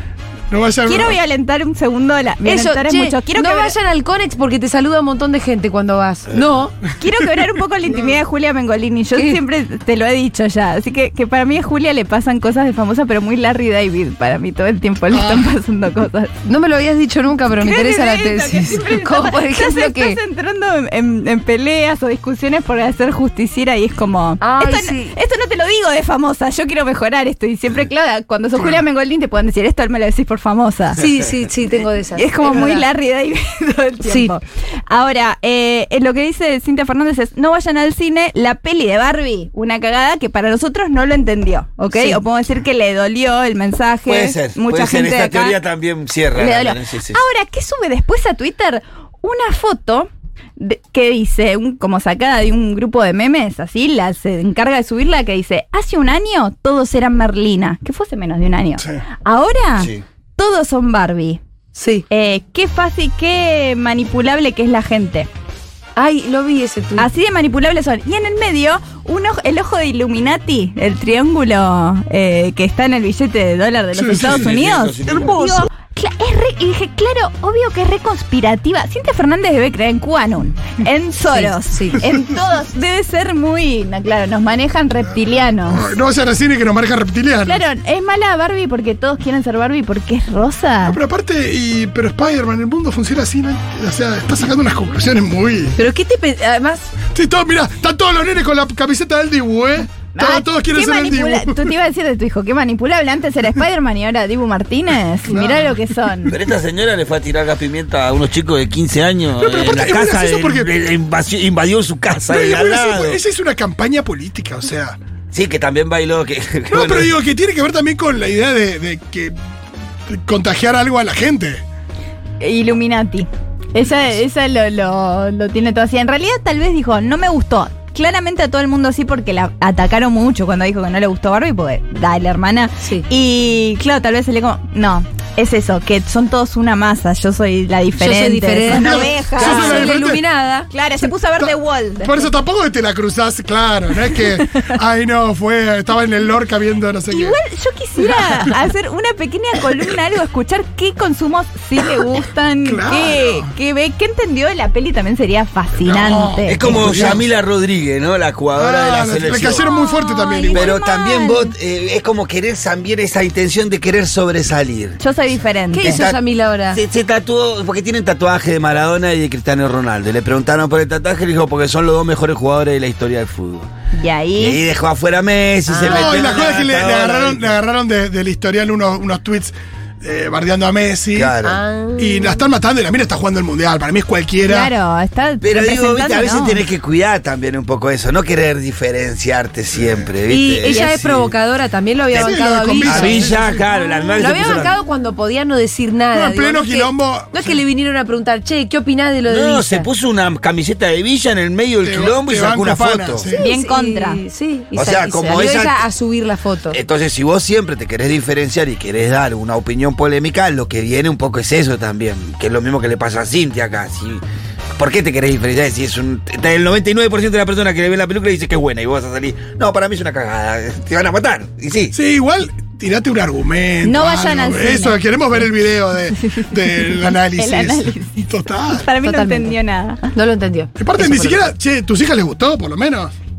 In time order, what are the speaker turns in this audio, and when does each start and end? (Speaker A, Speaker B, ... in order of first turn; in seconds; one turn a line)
Speaker A: 0.5-1.2
Speaker B: 0.8-3.7
Speaker C: 2.4-6.7
Speaker B: 7.0-16.3
Speaker A: 15.1-15.5
Speaker C: 16.4-20.2
Speaker B: 17.5-31.0
Speaker C: 24.4-25.1
Speaker C: 31.0-32.8
Speaker B: 32.1-45.6
Speaker C: 34.0-34.3
Speaker C: 41.9-42.2
Speaker D: 44.0-47.2
Speaker B: 46.3-61.4
Speaker C: 61.8-62.0
Speaker B: 62.1-65.3
Speaker C: 66.0-67.1
Speaker B: 67.0-85.8
Speaker A: 73.9-74.5
Speaker D: 74.2-75.4
Speaker A: 75.0-75.7
Speaker C: 81.3-82.0
Speaker A: 85.7-87.6
Speaker B: 87.4-91.0
Speaker A: 90.8-95.8
Speaker C: 95.8-96.9
Speaker A: 97.1-101.7
Speaker B: 100.1-106.3
Speaker A: 105.3-105.8
Speaker D: 106.3-113.2
Speaker A: 109.4-110.7
Speaker A: 112.3-115.0
Speaker D: 115.3-117.1
Speaker A: 116.7-119.3
Speaker A: 120.1-121.6
Speaker B: 122.4-140.0
Speaker C: 137.9-140.7
Speaker A: 138.7-140.2
Speaker B: 140.7-142.3
Speaker A: 141.0-147.4
Speaker B: 144.1-144.7
Speaker B: 147.1-157.1
Speaker A: 148.0-148.5
Speaker A: 152.6-153.5
Speaker A: 155.8-157.2
Speaker D: 156.5-159.6
Speaker A: 158.6-160.7
Speaker B: 159.5-161.5
Speaker D: 160.5-165.0
Speaker B: 165.0-166.0
Speaker C: 165.7-166.8
Speaker D: 165.8-166.2
Speaker D: 166.7-173.7
Speaker B: 173.9-174.6
Speaker D: 174.3-177.6
Speaker C: 175.7-176.6
Speaker A: 175.8-181.3
Speaker D: 181.1-181.6
Speaker C: 181.4-182.4
Speaker A: 182.0-184.7
Speaker B: 184.4-186.6
Speaker D: 185.4-191.3
Speaker A: 189.7-190.1
Speaker C: 190.3-193.4
Speaker B: 190.7-190.9
Speaker A: 192.1-193.6
Speaker D: 192.8-194.7
Speaker B: 193.6-194.4
Speaker C: 194.2-199.9
Speaker A: 196.1-197.6
Speaker D: 199.3-203.2
Speaker A: 201.8-203.4
Speaker C: 203.3-206.8
Speaker B: 203.4-204.2
Speaker D: 204.7-205.8
Speaker D: 206.7-214.2
Speaker D: 214.8-221.9
Speaker A: 221.9-228.9
Speaker B: 223.8-225.0
Speaker B: 226.2-230.1
Speaker C: 229.0-229.6
Speaker C: 230.1-231.5
Speaker A: 230.8-233.1